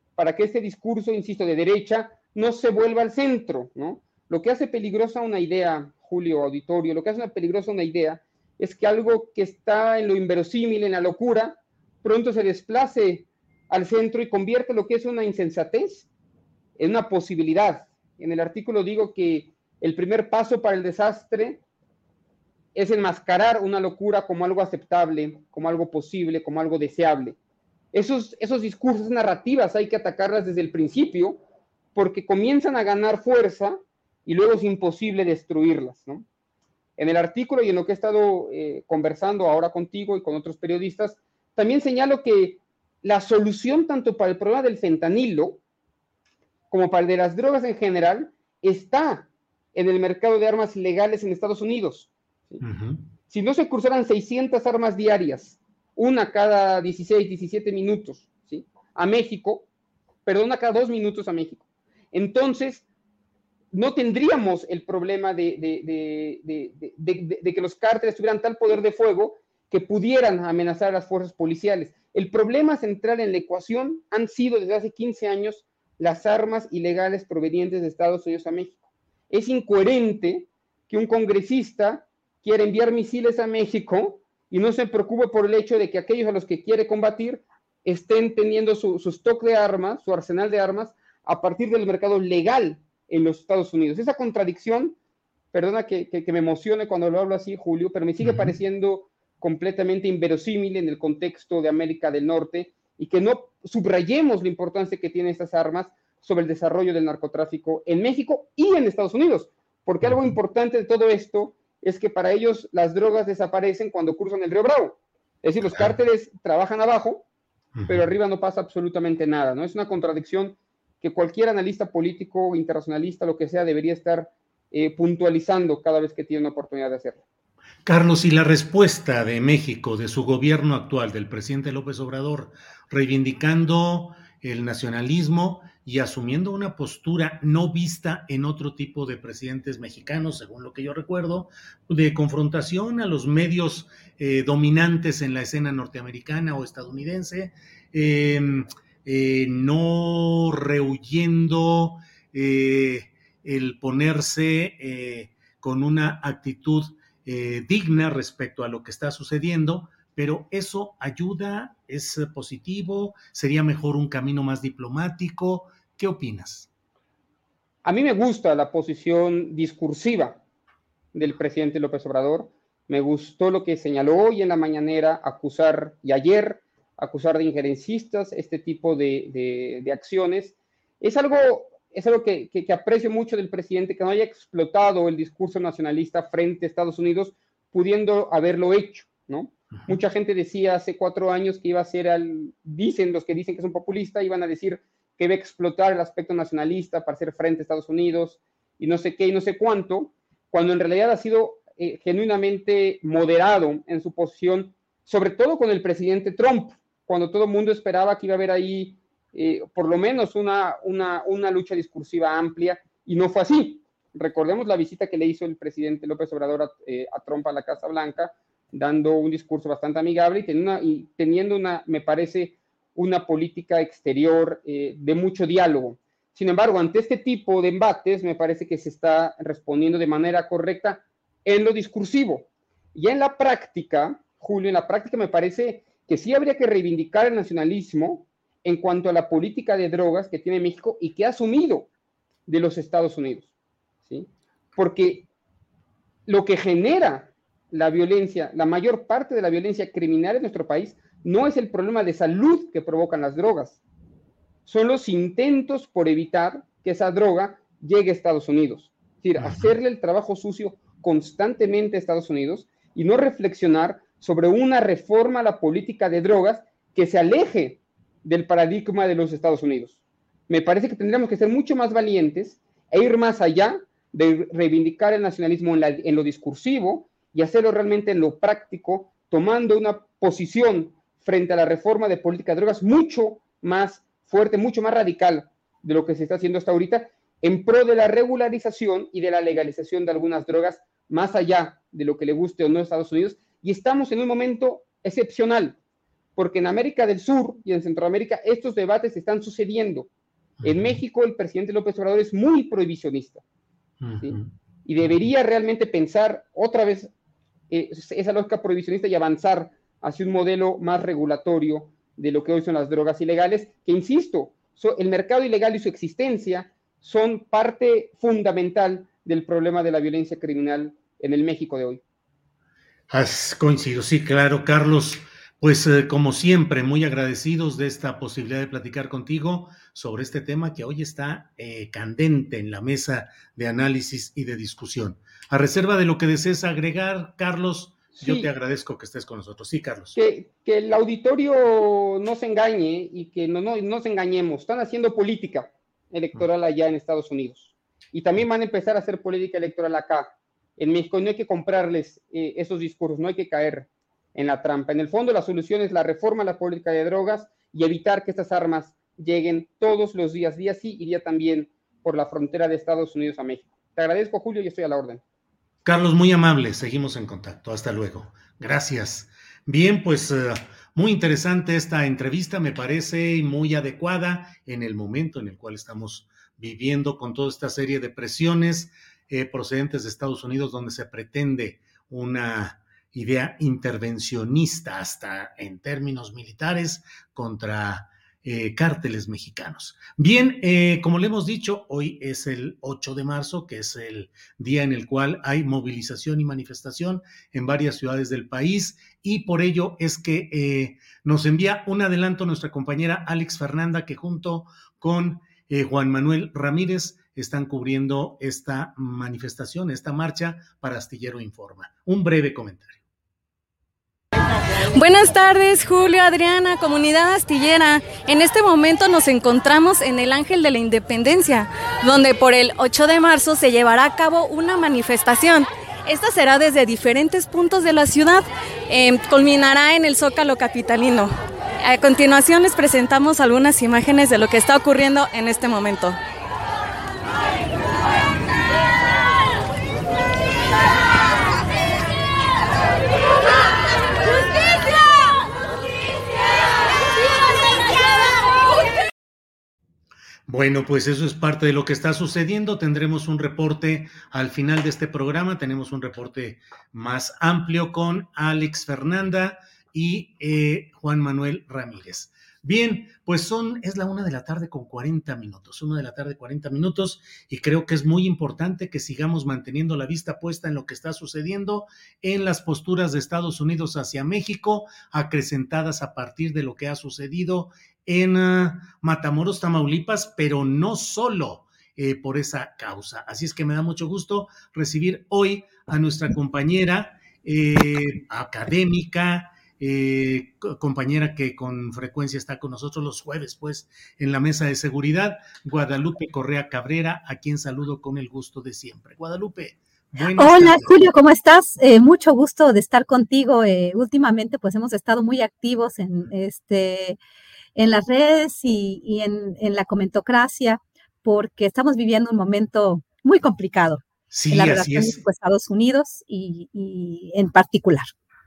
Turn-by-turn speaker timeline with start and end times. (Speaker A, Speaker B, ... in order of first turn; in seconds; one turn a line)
Speaker A: 0.2-16.1
Speaker A: 16.8-21.6
Speaker A: 22.7-27.4
Speaker A: 27.9-31.4
Speaker A: 31.9-36.2
Speaker A: 37.0-45.6
Speaker A: 46.7-52.6
Speaker B: 52.6-53.0
Speaker A: 53.3-59.7
Speaker A: 60.2-62.8
Speaker A: 63.7-95.0
Speaker A: 95.5-117.2
Speaker B: 98.2-98.6
Speaker B: 110.0-110.3
Speaker B: 115.7-116.0
Speaker B: 117.7-118.1
Speaker A: 117.9-127.2
Speaker B: 127.8-166.7
Speaker A: 167.8-170.4
Speaker A: 171.1-241.9
Speaker A: 242.5-243.5
Speaker A: 244.0-245.3
Speaker A: 246.3-253.8
Speaker A: 254.7-295.8
Speaker B: 259.4-259.7
Speaker A: 296.4-300.1
Speaker B: 300.6-301.0
Speaker A: 300.6-303.4
Speaker B: 304.0-304.5
Speaker A: 304.2-307.1
Speaker A: 307.7-322.0
Speaker B: 323.1-340.2
Speaker A: 338.2-338.5
Speaker A: 340.1-365.2
Speaker B: 365.8-413.0
Speaker C: 414.9-436.2
Speaker B: 450.5-501.1
Speaker D: 500.4-507.2
Speaker D: 507.8-518.1
Speaker B: 514.3-515.2